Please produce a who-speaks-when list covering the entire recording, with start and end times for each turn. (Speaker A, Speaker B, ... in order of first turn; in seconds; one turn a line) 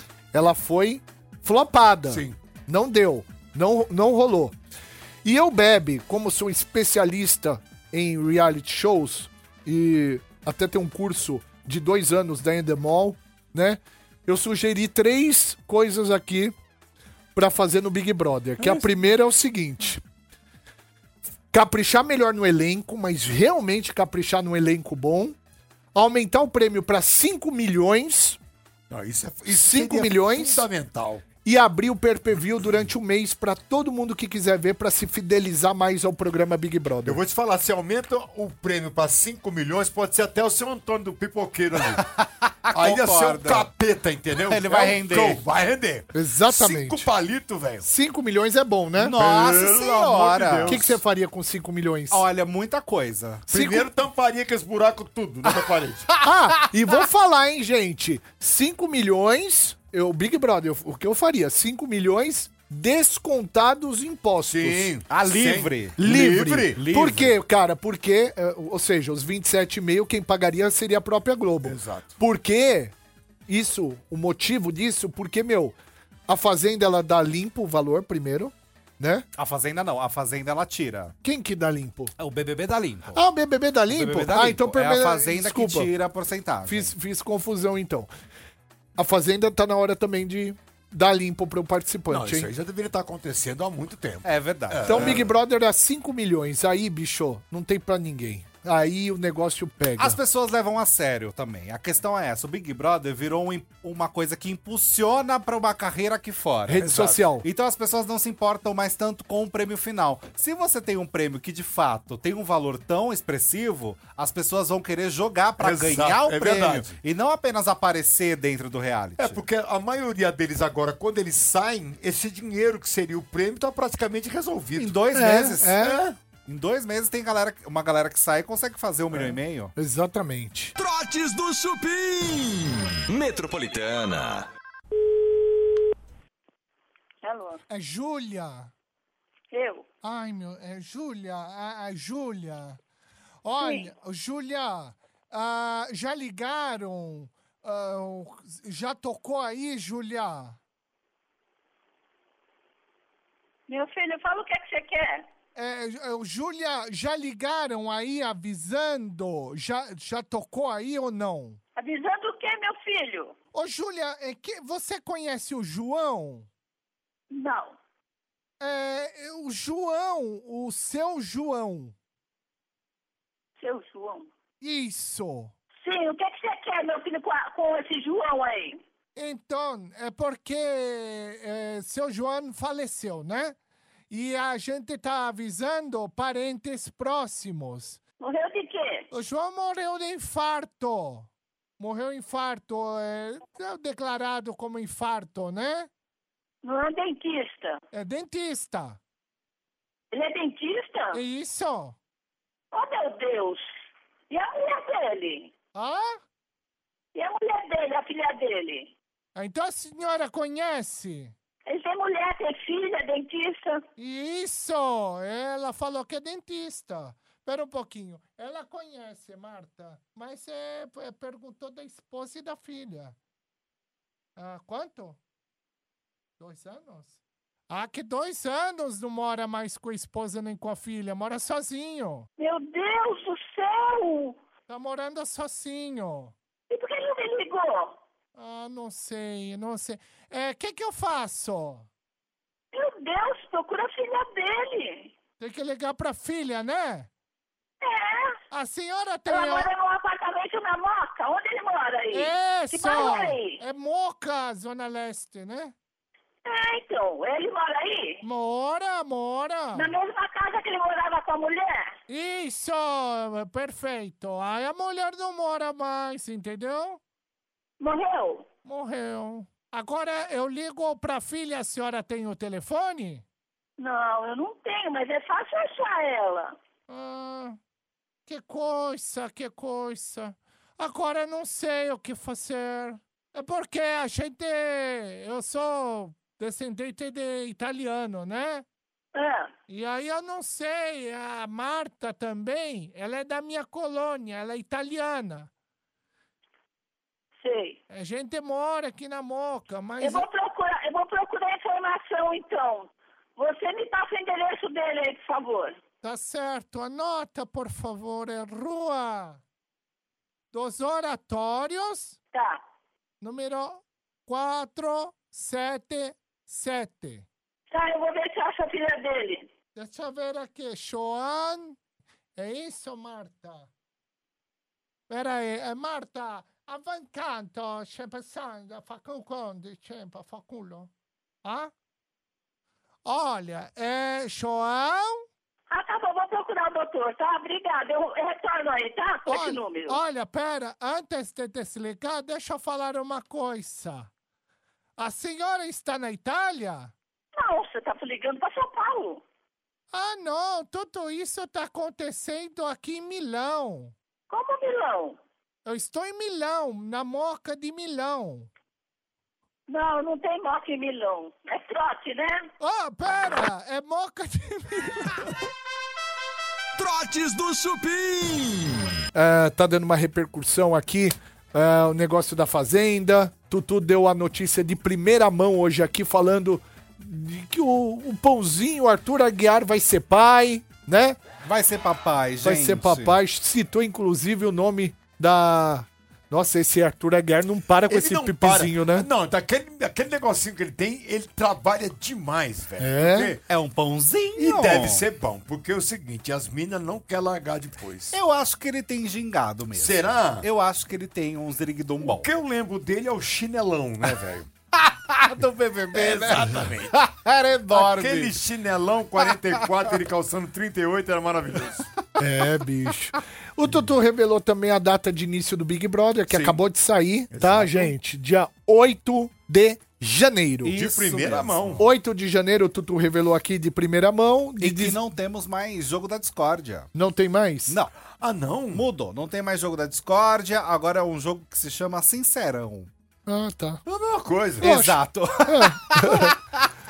Speaker A: 0.3-4.5
Speaker B: 2.1-2.4
Speaker A: 5.2-16.5
Speaker A: 17.4-20.0
Speaker A: 21.5-25.4
Speaker A: 25.9-28.4
Speaker B: 28.9-31.2
Speaker A: 29.5-30.7
Speaker A: 31.4-37.2
Speaker B: 37.0-42.0
Speaker C: 42.0-43.7
Speaker B: 42.7-47.9
Speaker C: 44.4-45.4
Speaker A: 46.1-47.1
Speaker A: 47.8-49.1
Speaker C: 49.0-50.8
Speaker B: 49.1-51.0
Speaker A: 50.7-52.2
Speaker C: 52.1-53.5
Speaker B: 53.5-56.1
Speaker A: 53.5-53.9
Speaker A: 56.2-64.9
Speaker B: 64.5-66.8
Speaker C: 65.1-66.0
Speaker A: 66.0-72.9
Speaker C: 66.8-67.3
Speaker B: 71.6-72.2
Speaker A: 73.5-75.8
Speaker A: 76.3-79.3
Speaker C: 79.4-81.1
Speaker A: 81.2-82.1
Speaker C: 82.2-83.2
Speaker A: 83.1-85.9
Speaker C: 83.9-86.9
Speaker A: 86.7-88.1
Speaker A: 89.0-92.5
Speaker B: 92.1-95.3
Speaker C: 94.2-95.2
Speaker A: 94.8-100.2
Speaker C: 100.0-106.8
Speaker A: 106.7-107.5
Speaker B: 106.8-107.2
Speaker C: 107.4-119.4
Speaker B: 115.6-116.9
Speaker B: 119.2-125.0
Speaker C: 124.8-125.8
Speaker A: 125.1-126.0
Speaker B: 125.8-126.2
Speaker C: 126.5-129.7
Speaker A: 129.8-130.7
Speaker D: 130.8-134.5
Speaker E: 137.2-137.6
Speaker F: 137.7-138.7
Speaker E: 139.5-139.8
Speaker F: 140.0-142.8
Speaker F: 143.4-144.8
Speaker E: 143.6-143.9
Speaker F: 145.3-150.6
Speaker E: 153.7-155.2
Speaker F: 155.6-159.4
Speaker A: 156.6-157.4
Speaker A: 159.1-161.6
Speaker E: 161.8-163.3
Speaker F: 163.6-166.4
Speaker E: 167.3-167.8
Speaker F: 168.6-170.3
Speaker A: 168.7-171.9
Speaker E: 173.6-174.3
Speaker A: 174.6-175.5
Speaker F: 174.7-175.1
Speaker E: 175.8-178.8
Speaker F: 179.2-183.6
Speaker F: 184.1-188.0
Speaker E: 188.2-189.1
Speaker F: 189.1-195.9
Speaker E: 196.6-197.8
Speaker F: 197.9-199.0
Speaker E: 200.1-201.2
Speaker F: 201.1-202.0
Speaker E: 202.7-203.7
Speaker E: 204.3-205.5
Speaker F: 205.8-206.2
Speaker E: 207.2-208.9
Speaker F: 209.4-211.3
Speaker E: 211.7-213.8
Speaker F: 214.0-223.2
Speaker F: 224.4-225.2
Speaker F: 226.4-232.3
Speaker E: 232.4-234.4
Speaker F: 234.7-236.3
Speaker E: 236.7-238.0
Speaker F: 238.3-241.9
Speaker E: 242.7-245.1
Speaker F: 245.4-247.1
Speaker E: 247.8-248.4
Speaker F: 248.5-249.7
Speaker E: 249.3-253.6
Speaker F: 252.1-255.8
Speaker E: 256.4-258.2
Speaker F: 258.2-259.9
Speaker E: 259.8-261.9
Speaker F: 262.1-267.0
Speaker E: 267.8-268.5
Speaker F: 268.7-273.2
Speaker E: 273.8-276.6
Speaker F: 276.9-277.6
Speaker F: 278.3-288.6
Speaker E: 289.1-289.5
Speaker F: 289.7-295.5
Speaker E: 297.4-297.8
Speaker F: 297.9-300.3
Speaker E: 300.0-305.8
Speaker F: 306.0-309.4
Speaker F: 310.5-312.2
Speaker E: 312.3-312.6
Speaker F: 313.2-317.3
Speaker E: 317.7-319.5
Speaker F: 319.8-321.8
Speaker F: 322.4-323.7
Speaker F: 325.1-330.9
Speaker F: 331.4-331.7
Speaker F: 333.1-335.2
Speaker E: 335.7-340.0
Speaker F: 339.3-344.1
Speaker F: 345.0-346.9
Speaker E: 347.4-349.2
Speaker F: 349.9-353.9
Speaker E: 354.3-355.2
Speaker F: 355.7-358.5
Speaker E: 359.7-362.5
Speaker F: 362.6-365.3
Speaker D: 366.8-368.9
Speaker A: 369.1-381.2
Speaker C: 381.4-383.2
Speaker A: 382.4-389.1
Speaker B: 387.9-393.4
Speaker A: 392.8-393.3
Speaker C: 393.5-395.1
Speaker B: 394.4-398.2
Speaker C: 398.1-402.3
Speaker B: 399.8-400.5
Speaker B: 402.0-404.5
Speaker C: 404.8-408.4
Speaker B: 405.9-406.9
Speaker B: 407.7-411.9
Speaker C: 409.3-409.7
Speaker A: 412.2-420.8
Speaker B: 416.3-416.6
Speaker B: 417.3-417.9
Speaker C: 420.6-421.8
Speaker B: 420.7-421.9
Speaker A: 421.8-425.0
Speaker C: 424.6-426.9
Speaker A: 426.9-427.8
Speaker C: 427.7-427.9
Speaker B: 428.2-428.8
Speaker C: 428.7-432.9
Speaker A: 433.3-433.8
Speaker B: 433.9-434.7
Speaker A: 434.6-436.3
Speaker C: 434.6-436.3